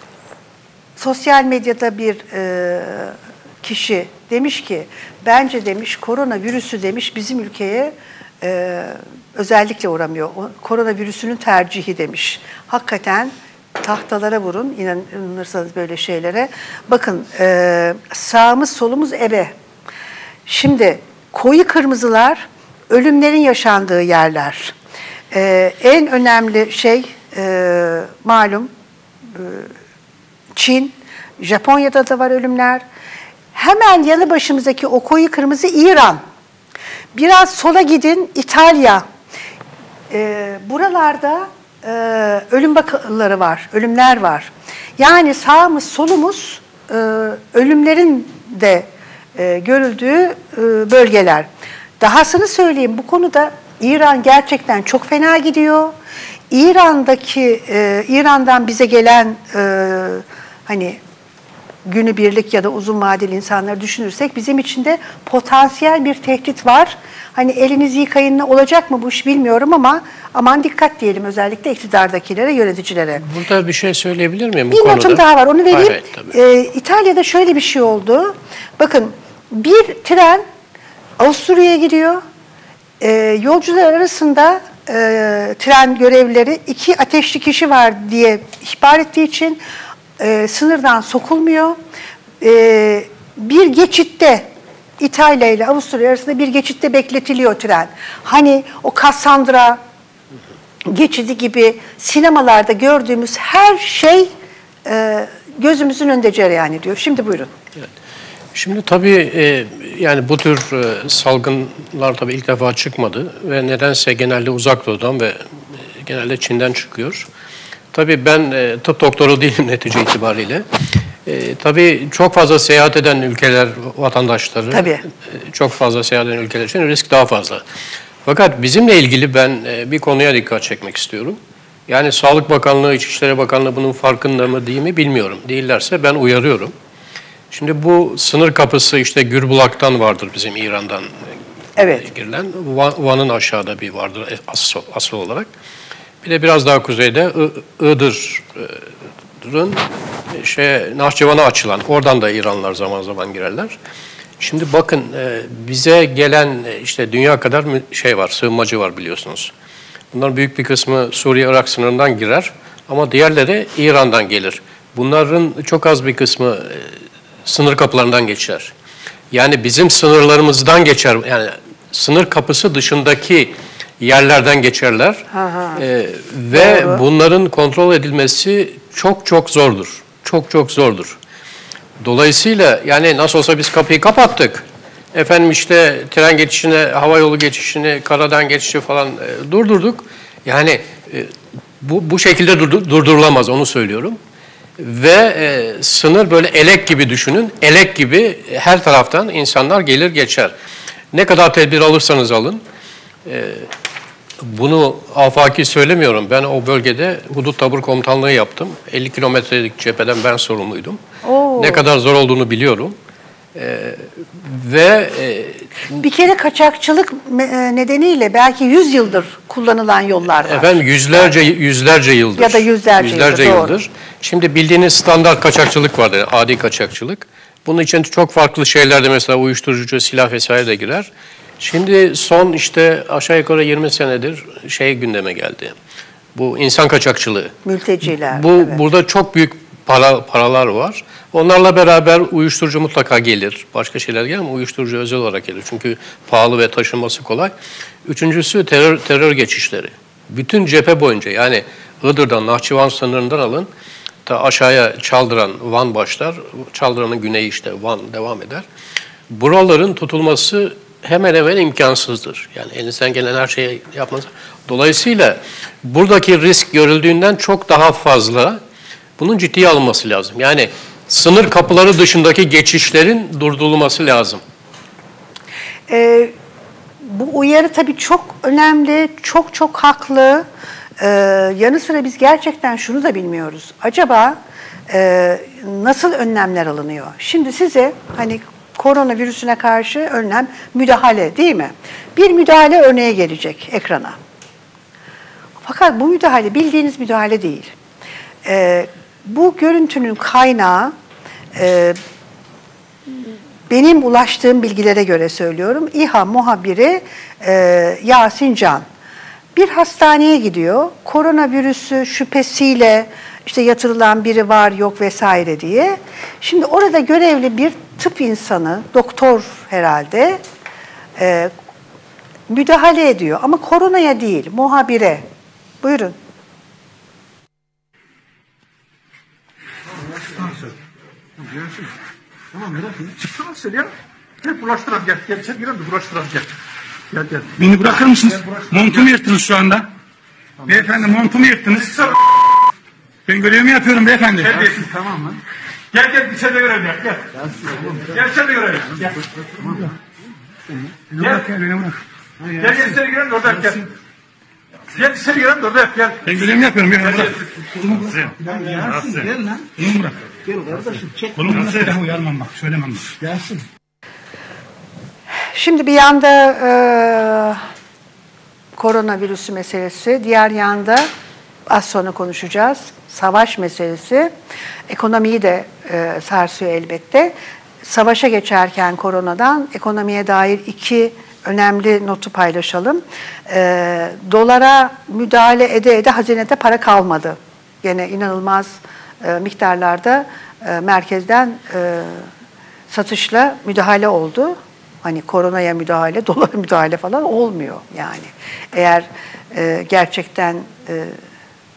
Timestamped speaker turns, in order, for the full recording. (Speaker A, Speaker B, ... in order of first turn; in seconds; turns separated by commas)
Speaker A: 1.0-19.5, Speaker A: 20.5-24.7, Speaker A: 25.3-28.7, Speaker A: 29.3-29.7, Speaker A: 30.6-32.8, Speaker A: 33.5-36.2, Speaker A: 37.1-39.0, Speaker A: 40.1-51.5, Speaker A: 52.0-55.9, Speaker A: 56.5-61.0, Speaker A: 61.9-73.2, Speaker B: 73.2-76.3, Speaker A: 74.7-80.5, Speaker A: 81.2-82.2, Speaker A: 83.0-89.6, Speaker A: 90.2-91.8, Speaker A: 92.4-99.8, Speaker A: 100.9-104.3, Speaker A: 104.9-107.5, Speaker B: 108.5-117.3, Speaker B: 117.9-120.7, Speaker B: 121.2-127.6, Speaker A: 124.7-125.0, Speaker B: 128.2-136.7, Speaker B: 137.5-141.1, Speaker A: 141.8-142.1, Speaker B: 142.0-145.5, Speaker B: 146.2-148.9, Speaker B: 149.4-153.8, Speaker B: 154.4-159.5, Speaker B: 160.1-168.7, Speaker B: 169.3-181.2, Speaker A: 175.3-175.8, Speaker A: 176.5-177.0, Speaker B: 182.0-194.2, Speaker B: 194.8-200.5, Speaker B: 201.1-202.6, Speaker B: 203.2-203.7, Speaker B: 204.4-211.0, Speaker A: 211.2-211.9, Speaker B: 211.6-213.0, Speaker B: 213.6-216.0, Speaker A: 216.0-220.8, Speaker B: 220.4-235.8, Speaker A: 222.4-223.7, Speaker B: 236.3-237.6, Speaker A: 237.7-238.8, Speaker B: 238.2-253.7, Speaker B: 254.2-258.7, Speaker B: 259.3-268.6, Speaker B: 269.2-274.4, Speaker A: 275.9-276.3, Speaker A: 277.0-280.4, Speaker A: 281.0-284.4, Speaker A: 284.9-294.2, Speaker A: 295.6-297.7, Speaker A: 298.4-300.9, Speaker A: 301.6-302.0, Speaker A: 303.1-308.9, Speaker A: 309.6-320.4, Speaker A: 321.2-321.5, Speaker A: 322.5-325.2, Speaker A: 325.8-326.1, Speaker C: 330.4-330.7, Speaker C: 332.5-333.9, Speaker C: 334.4-336.5, Speaker C: 337.1-337.5, Speaker D: 337.5-339.9, Speaker C: 338.3-339.0, Speaker D: 340.6-342.1, Speaker D: 343.3-344.8, Speaker C: 344.4-345.4, Speaker C: 345.9-349.9, Speaker D: 351.1-352.0, Speaker C: 351.2-351.5, Speaker C: 352.5-353.9, Speaker C: 354.9-356.2, Speaker D: 356.2-360.2, Speaker C: 357.0-357.5, Speaker C: 358.4-359.7, Speaker C: 360.6-361.2, Speaker D: 361.4-363.2, Speaker A: 365.5-367.6, Speaker A: 368.8-371.1, Speaker A: 371.7-374.3, Speaker A: 374.9-392.3, Speaker A: 392.9-401.2